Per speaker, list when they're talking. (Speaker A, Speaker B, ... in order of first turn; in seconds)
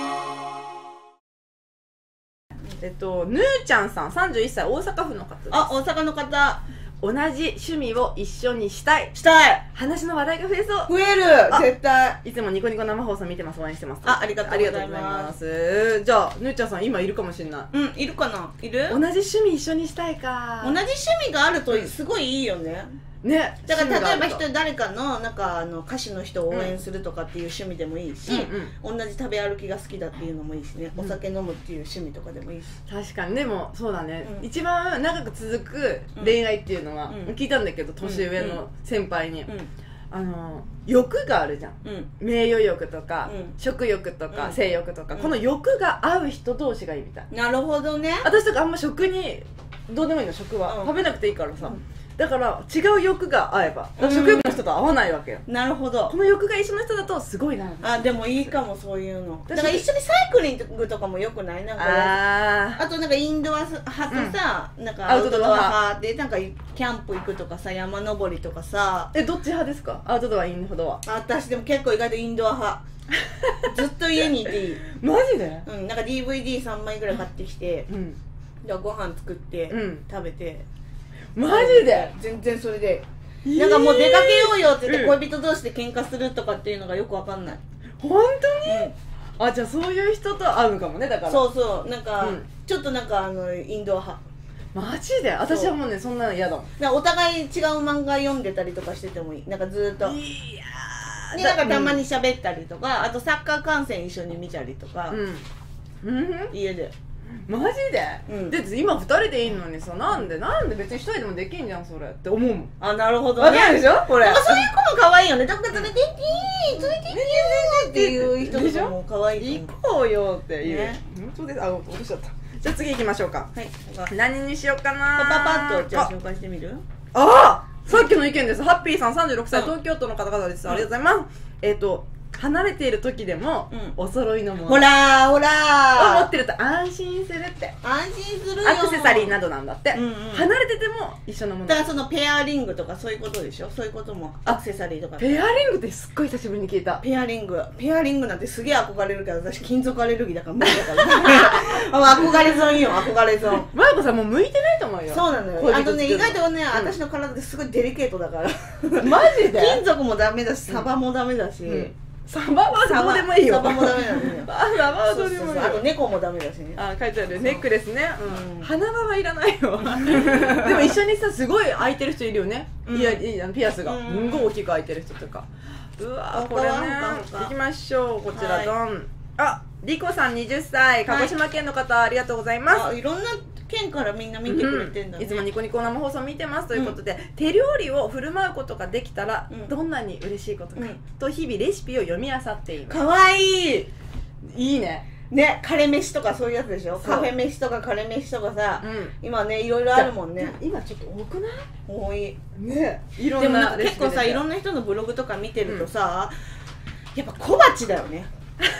Speaker A: 2.8-5.7, 7.0-9.2, 9.7-10.9, 12.2-17.7, 18.9-20.8, 23.2-24.4, 26.5-26.8, 28.2-28.7, 32.9-39.5, 40.1-47.3, 48.2-55.4, 56.1-58.1, 59.5-59.9, 61.8-62.8, 64.1-64.4, 65.0-65.8, 69.1-71.0, 73.2-73.7, 74.8-75.7, 77.9-78.2, 79.7-80.0, 81.3-82.1, 83.5-85.2, 88.0-91.5, 92.2-92.5, 94.7-96.7, 100.0-102.0, 105.1-105.5, 106.0-106.5, 107.5-112.7, 113.4-114.7, 116.5-123.5, 124.1-126.1, 127.1-134.9, 136.0-137.8, 138.6-141.9, 145.2-147.0, 151.2-151.5, 153.6-156.9, 159.0-159.8, 161.7-165.9, 166.8-182.9, 184.5-193.0, 194.5-195.1, 197.0-197.3, 198.8-199.1, 199.9-201.7, 202.6-204.4
Speaker B: 5.5-6.6, 9.1-9.6, 10.9-12.2, 14.0-15.3, 17.7-19.0, 20.6-22.9, 23.7-32.8, 37.1-37.4, 38.0-38.6, 41.8-42.1, 43.3-43.5, 44.3-44.6, 47.3-48.3, 50.7-51.0, 54.0-54.6, 55.5-56.1, 57.8-69.1, 71.0-72.8, 73.6-74.8, 75.6-77.9, 78.6-80.7, 81.4-87.6, 88.7-88.9, 91.3-94.2, 95.5-95.7, 96.8-100.2, 101.3-105.2, 106.5-106.9, 108.3-108.6, 112.8-119.7, 120.6-121.0, 123.5-124.1, 125.1-126.8, 134.7-136.3, 137.8-139.4, 139.9-140.5, 141.7-145.4, 147.0-153.7, 155.1-161.9, 162.8-167.7, 168.2-168.7, 170.2-170.7, 172.9-173.2, 173.8-174.5, 176.3-177.6, 178.3-178.7, 181.1-181.3, 182.7-185.4, 192.9-193.9, 195.3-200.6, 201.9-202.4, 203.3-206.3, 207.2-208.3